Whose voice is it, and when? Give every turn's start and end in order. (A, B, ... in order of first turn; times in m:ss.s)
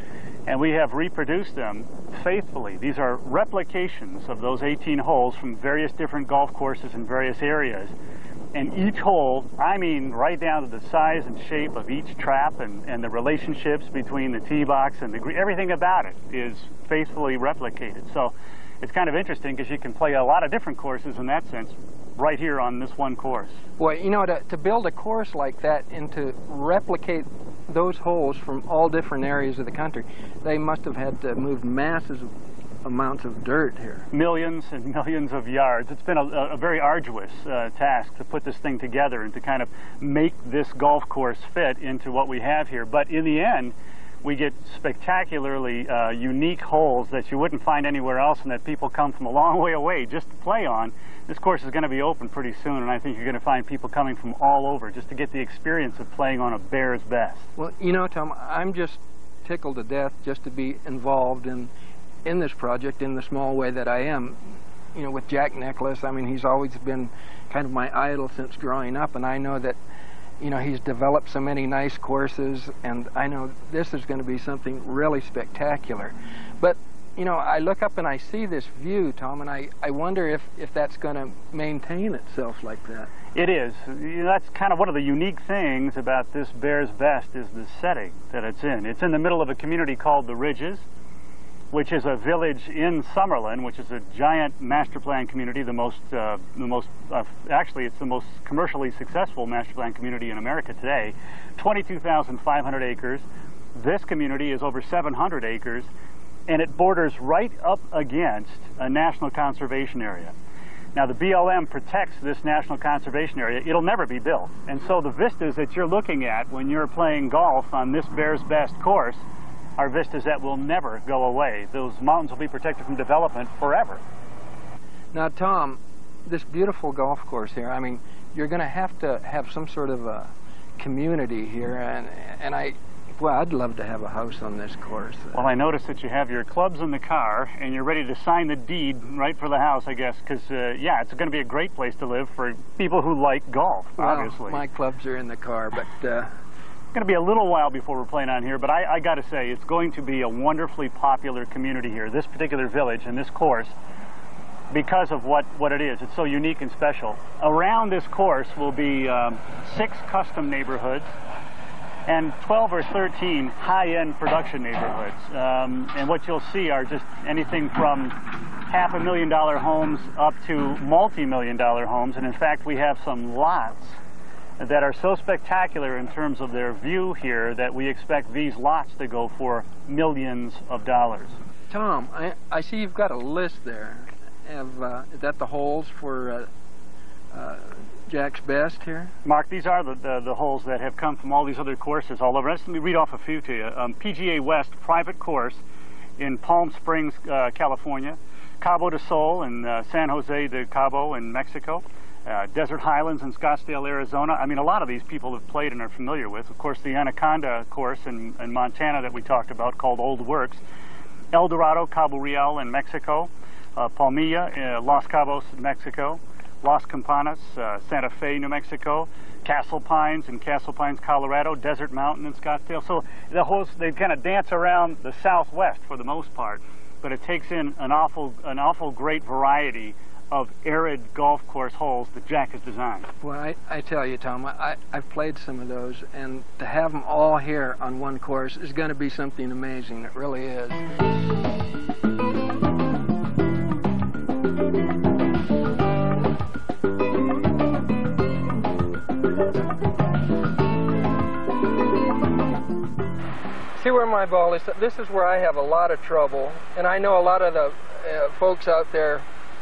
0:00.5-0:07.9 A
0:08.5-0:23.6 A
0:23.8-0:32.3 B
0:32.8-0:34.1 B
0:34.1-0:57.5 A
0:57.6-1:01.7 B
1:02.2-1:09.8 B
1:10.4-1:23.1 B
1:23.3-1:30.8 A
1:31.7-1:45.9 A
1:46.5-1:50.3 A
1:50.9-1:59.2 A
1:59.8-2:04.0 A
2:05.1-2:15.5 B
2:15.3-2:24.6 A
2:24.0-2:26.3 B
2:26.9-2:33.7 A
2:34.7-2:41.1 A
2:42.1-2:48.1 A
2:48.7-2:54.0 A
2:54.6-3:01.4 A
3:01.7-3:06.5 B
3:07.3-3:09.1 B
3:09.2-3:15.6 A
3:16.2-3:30.6 A
3:31.3-3:53.1 A
3:53.2-4:00.8 B
4:13.8-4:19.2 B